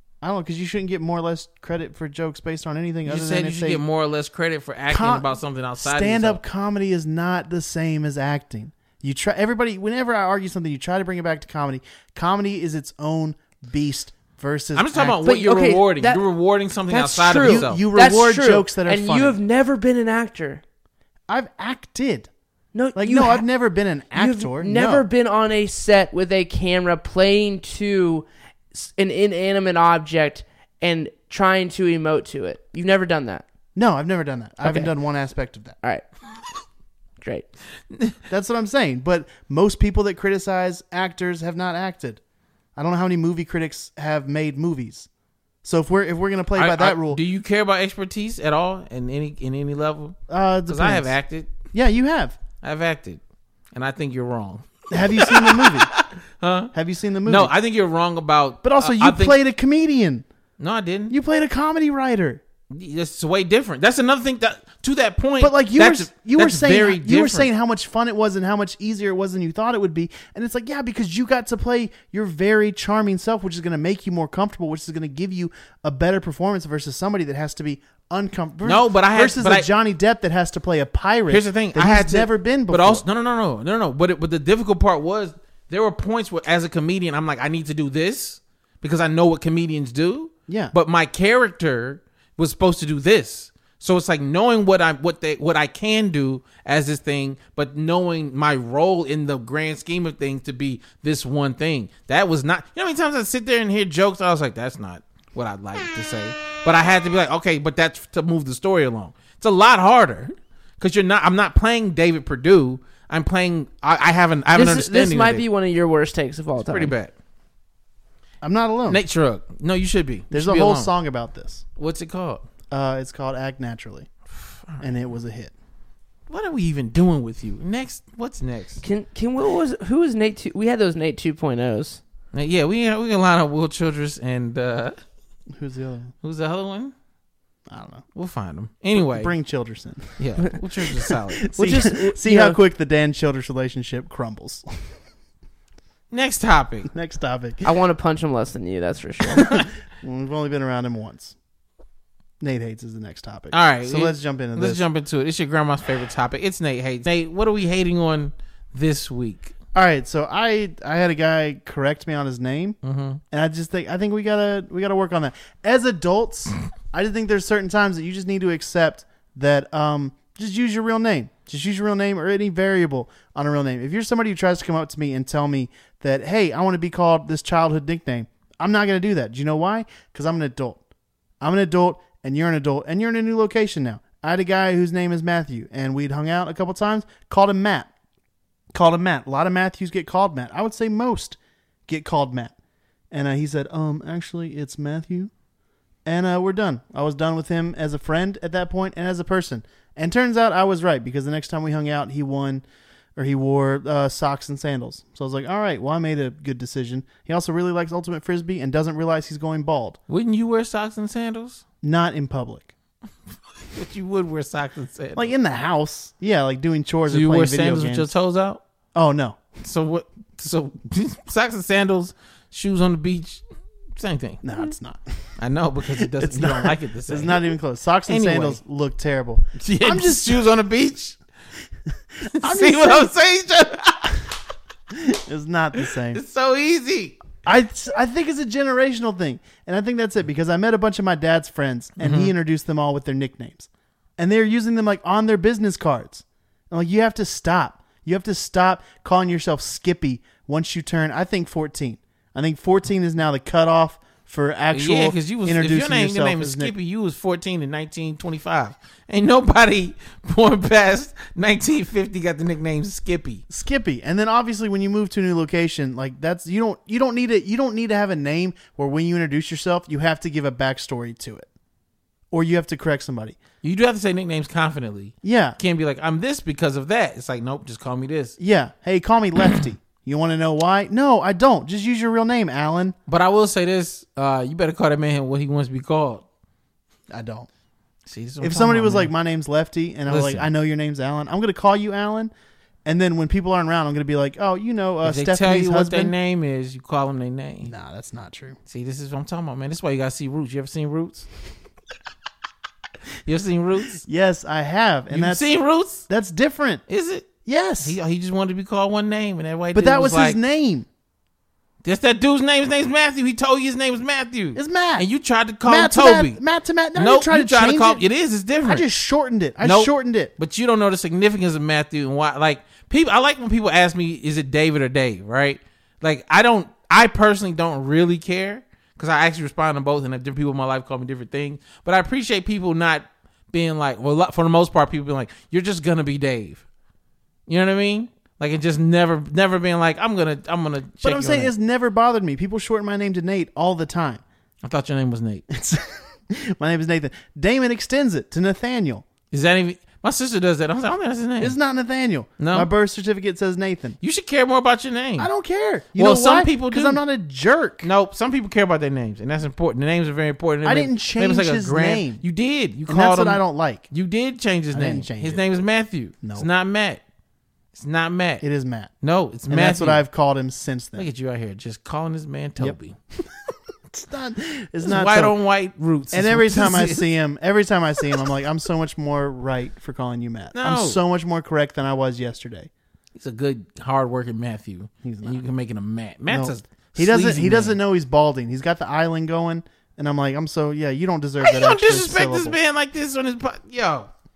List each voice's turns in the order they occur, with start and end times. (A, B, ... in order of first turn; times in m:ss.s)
0:00.2-0:03.8 A
0:03.1-0:06.4 B
0:04.9-0:15.2 A
0:14.8-0:17.8 B
0:15.2-0:16.3 C
0:16.9-0:20.6 C
0:17.4-0:19.4 A
0:21.3-0:22.3 A
0:22.7-0:23.5 C
0:23.0-0:25.0 A
0:24.1-0:33.5 C
0:33.8-0:35.8 A
0:34.6-0:34.9 C
0:37.2-0:37.5 C
0:37.9-0:38.2 B
0:38.3-0:42.2 A
0:42.8-0:45.1 A
0:45.6-0:47.2 A
0:46.6-0:51.5 B
0:50.3-0:51.1 A
0:51.7-0:52.4 A
0:52.6-0:53.2 B
0:53.7-0:56.7 B
0:54.9-0:55.9 A
0:56.7-0:57.5 A
0:57.2-0:59.4 B
0:58.6-1:00.2 A
1:00.6-1:01.2 B
1:01.1-1:02.4 A
1:02.7-1:07.5 B
1:05.4-1:23.0 A
1:18.6-1:19.7 B
1:21.3-1:55.4 B
1:30.5-1:30.8 A
1:54.5-1:56.9 C
1:56.6-1:57.1 B
1:58.4-1:59.0 A
1:58.9-2:00.9 B
2:00.3-2:01.6 A
2:01.8-2:02.5 B
2:02.7-2:04.1 A
2:04.4-2:04.8 B
2:04.8-2:05.5 A
2:06.3-2:08.8 B
2:08.8-2:12.0 C
2:12.3-2:15.0 B
2:15.5-2:16.1 A
2:16.2-2:16.9 B
2:17.7-2:18.0 A
2:18.2-2:19.3 B
2:19.0-2:20.2 A
2:20.2-2:21.4 B
2:21.0-2:24.9 A
2:21.6-2:22.6 C
2:26.1-2:26.9 B
2:26.9-2:27.6 A
2:27.6-2:29.6 C
2:29.5-2:31.4 A
2:32.4-2:34.8 A
2:33.5-2:39.5 B
2:39.8-2:42.8 A
2:42.8-2:43.2 B
2:43.3-3:00.8 A
3:01.4-3:07.9 A
3:08.7-3:12.5 A
3:13.1-3:15.3 A
3:16.0-3:22.6 A
3:23.2-3:30.0 A
3:30.1-3:31.6 B
3:31.8-3:32.7 A
3:33.7-3:35.3 B
3:35.2-3:38.1 A
3:37.1-3:38.6 B
3:39.0-3:39.4 A
3:39.6-3:43.4 B
3:44.0-3:44.4 B
3:44.4-3:45.0 A
3:45.4-3:47.5 B
3:45.9-3:50.5 A
3:48.1-3:48.6 B
3:49.6-3:51.2 B
3:52.2-3:53.1 A
3:52.3-3:54.2 B
3:54.9-3:56.2 A
3:55.8-3:57.2 B
3:57.4-4:16.7 A
4:02.0-4:02.3 B
4:14.7-4:23.4 B
4:23.5-4:31.5 A
4:32.3-4:33.4 A
4:33.6-4:38.4 B
4:35.2-4:35.6 A
4:38.4-4:43.0 A
4:43.1-4:46.2 B
4:47.1-4:47.5 A
4:48.1-4:49.1 B
4:48.4-4:52.3 A
4:50.1-4:50.5 B
4:52.8-4:56.2 A
4:55.0-4:57.7 B
4:57.6-4:58.6 A
4:58.7-5:01.3 B
5:03.2-5:04.0 B
5:04.0-5:05.5 A
5:05.1-5:06.0 B
5:06.1-5:06.8 A
5:06.9-5:10.4 B
5:07.4-5:08.0 A
5:09.7-5:10.9 A
5:11.8-5:16.4 B
5:14.6-5:15.1 A
5:15.6-5:18.0 A
5:17.0-5:18.9 B
5:18.6-5:20.3 A
5:19.6-5:36.6 B
5:37.5-5:41.5 B
5:41.0-5:44.2 A
5:44.6-5:45.4 B
5:45.5-5:49.0 A
5:49.3-5:51.6 B
5:51.4-5:54.0 A
5:52.4-5:52.7 B
5:54.0-5:55.3 B
5:55.2-5:57.9 A
5:56.0-5:57.0 B
5:57.8-6:07.0 B
6:00.6-6:02.2 A
6:02.9-6:03.8 A
6:04.7-6:05.4 A
6:06.2-6:06.5 A
6:07.7-6:08.4 B
6:08.4-6:08.9 A
6:09.0-6:10.0 B
6:09.5-6:11.1 A
6:11.0-6:13.0 B
6:13.9-6:15.4 A
6:14.8-6:17.1 B
6:16.1-6:22.7 A
6:20.5-6:21.0 B
6:23.2-6:27.8 B
6:25.0-6:25.4 A
6:26.3-6:32.6 A
6:31.4-6:34.1 B